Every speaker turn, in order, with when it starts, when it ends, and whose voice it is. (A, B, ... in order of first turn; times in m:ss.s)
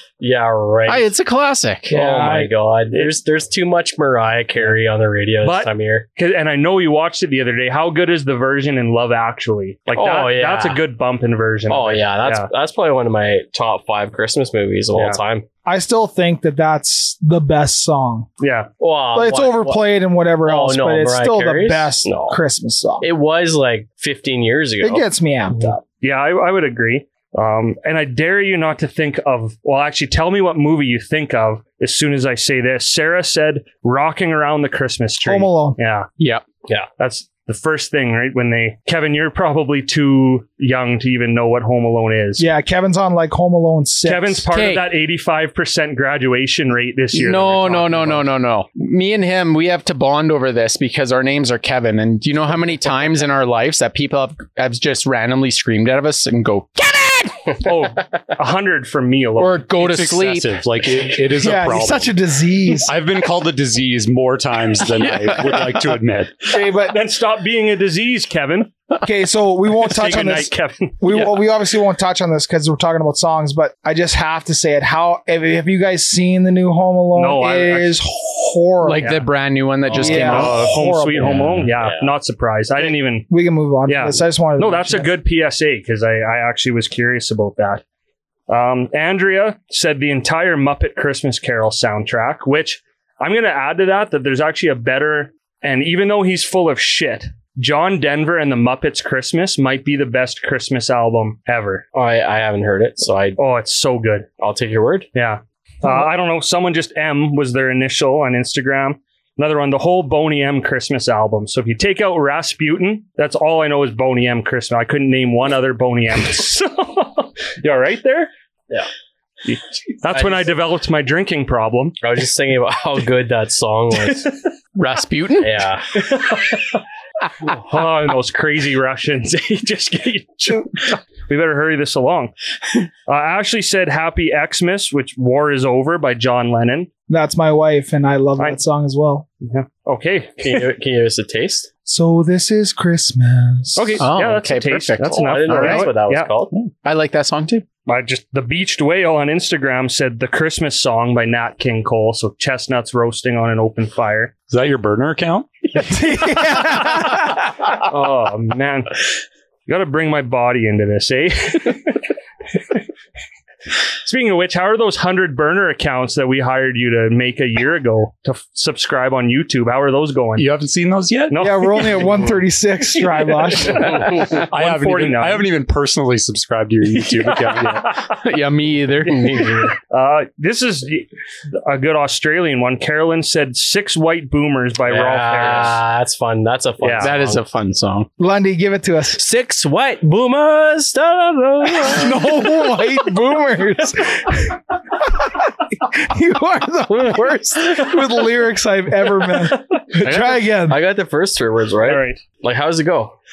0:00.2-0:01.1 A
0:00.9-0:02.0 B
0:01.9-0:06.1 A
0:01.9-0:02.5 C
0:02.3-0:03.1 D
0:05.4-0:12.5 D
0:09.9-0:10.8 A
0:11.7-0:15.4 A
0:14.9-0:15.2 D
0:15.6-0:18.3 C
0:18.4-0:18.7 D
0:18.8-0:19.8 A
0:19.1-0:23.1 C
0:20.4-0:22.4 A
0:23.0-0:25.0 A
0:24.8-0:25.8 C
0:26.0-0:36.1 D
0:35.2-0:35.8 C
0:36.2-0:36.4 B
0:37.0-0:42.4 D
0:42.4-0:44.5 C
0:44.0-0:48.3 D
0:44.5-0:44.9 B
0:47.1-0:57.6 B
0:57.6-0:59.6 D
0:59.4-1:00.6 B
0:59.8-1:02.1 E
1:01.4-1:02.9 C
1:02.8-1:06.5 E
1:05.0-1:05.7 B
1:06.5-1:07.0 C
1:06.8-1:08.7 D
1:09.0-1:19.2 C
1:09.8-1:11.2 D
1:17.1-1:18.0 D
1:18.8-1:21.7 B
1:19.0-1:19.2 D
1:19.9-1:23.3 D
1:19.9-1:21.6 C
1:21.8-1:22.1 A
1:23.3-1:25.1 C
1:23.8-1:27.8 D
1:28.5-1:41.8 D
1:41.9-1:43.4 A
1:43.4-1:44.3 D
1:44.4-1:45.1 A
1:45.1-1:58.3 D
1:59.4-2:02.0 D
2:00.1-2:00.5 A
2:02.0-2:04.3 A
2:04.1-2:04.4 D
2:04.7-2:05.6 B
2:05.4-2:05.9 A
2:05.9-2:06.8 D
2:07.4-2:12.3 D
2:13.1-2:16.9 D
2:17.1-2:19.2 C
2:19.4-2:20.6 D
2:20.4-2:21.7 A
2:21.8-2:24.0 C
2:23.7-2:26.3 D
2:24.0-2:25.9 B
2:25.1-2:26.5 A
2:26.5-2:27.6 B
2:27.8-2:34.3 D
2:34.5-2:35.5 E
2:35.8-2:37.4 C
2:36.6-2:37.2 D
2:37.7-2:39.0 D
2:39.7-2:42.0 D
2:44.0-2:50.5 D
2:50.4-2:52.0 E
2:51.3-2:52.2 D
2:51.4-2:54.2 C
2:53.6-2:55.5 D
2:53.8-2:54.3 A
2:54.2-2:58.0 E
2:57.0-2:58.1 D
2:58.1-2:59.5 B
2:59.0-2:59.7 A
2:59.9-3:05.8 D
3:04.9-3:07.4 A
3:06.8-3:07.1 D
3:07.0-3:08.1 B
3:08.2-3:09.2 C
3:09.1-3:12.5 A
3:11.8-3:20.8 C
3:20.0-3:23.1 A
3:21.8-3:22.2 D